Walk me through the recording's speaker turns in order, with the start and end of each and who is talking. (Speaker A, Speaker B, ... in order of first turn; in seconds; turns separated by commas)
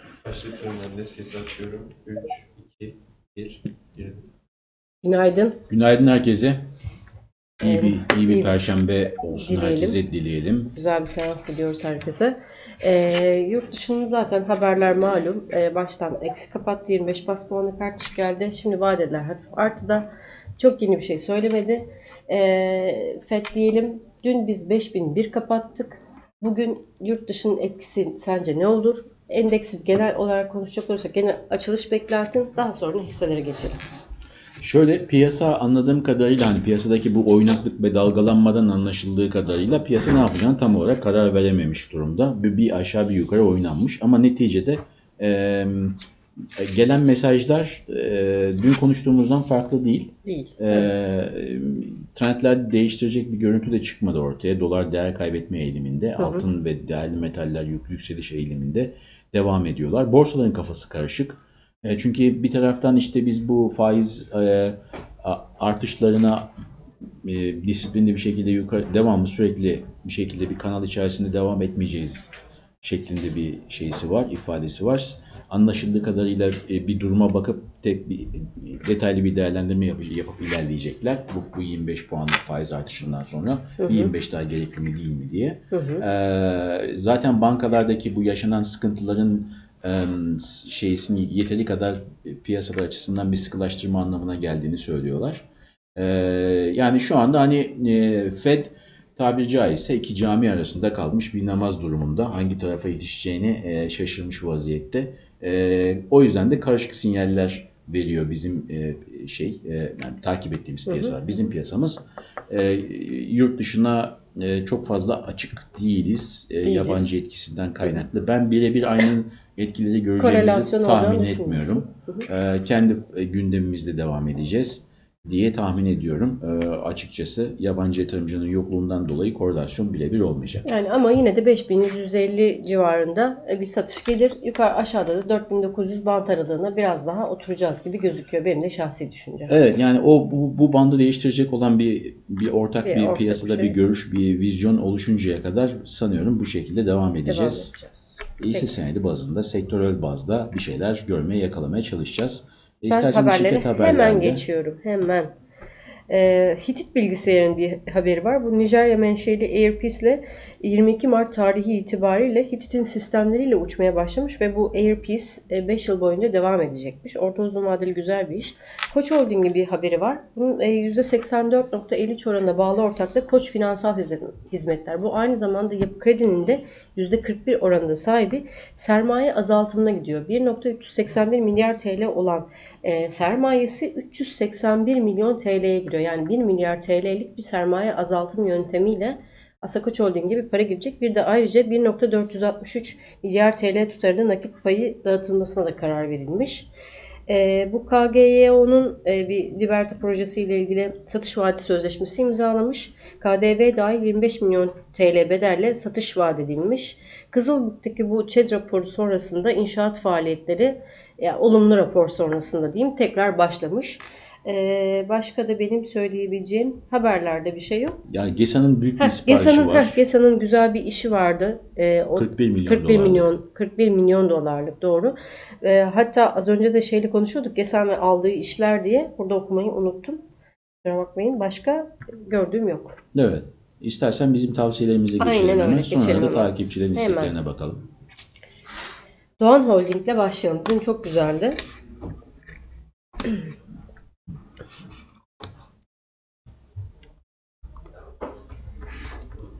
Speaker A: 0.2-4.2, Speaker B: 5.0-5.6, Speaker C: 5.7-6.6, Speaker C: 7.6-10.7, Speaker B: 7.6-8.8, Speaker B: 9.3-10.0, Speaker B: 10.7-33.8, Speaker C: 34.6-46.0, Speaker C: 46.5-66.5, Speaker B: 50.2-50.9, Speaker B: 56.2-56.4, Speaker C: 67.2-95.4, Speaker B: 83.8-84.1, Speaker B: 85.7-86.0, Speaker C: 96.0-130.6, Speaker B: 110.9-111.1, Speaker B: 116.6-117.1, Speaker B: 120.2-122.3, Speaker B: 130.6-139.5, Speaker C: 139.5-147.7, Speaker B: 142.8-143.7, Speaker B: 147.3-148.7, Speaker C: 148.4-154.4, Speaker B: 152.9-155.3, Speaker B: 156.1-196.7, Speaker B: 197.3-218.0, Speaker C: 218.1-220.0, Speaker B: 219.0-230.2, Speaker C: 222.1-223.3, Speaker B: 230.8-233.0, Speaker C: 233.1-237.8, Speaker B: 235.2-237.3, Speaker B: 239.4-241.6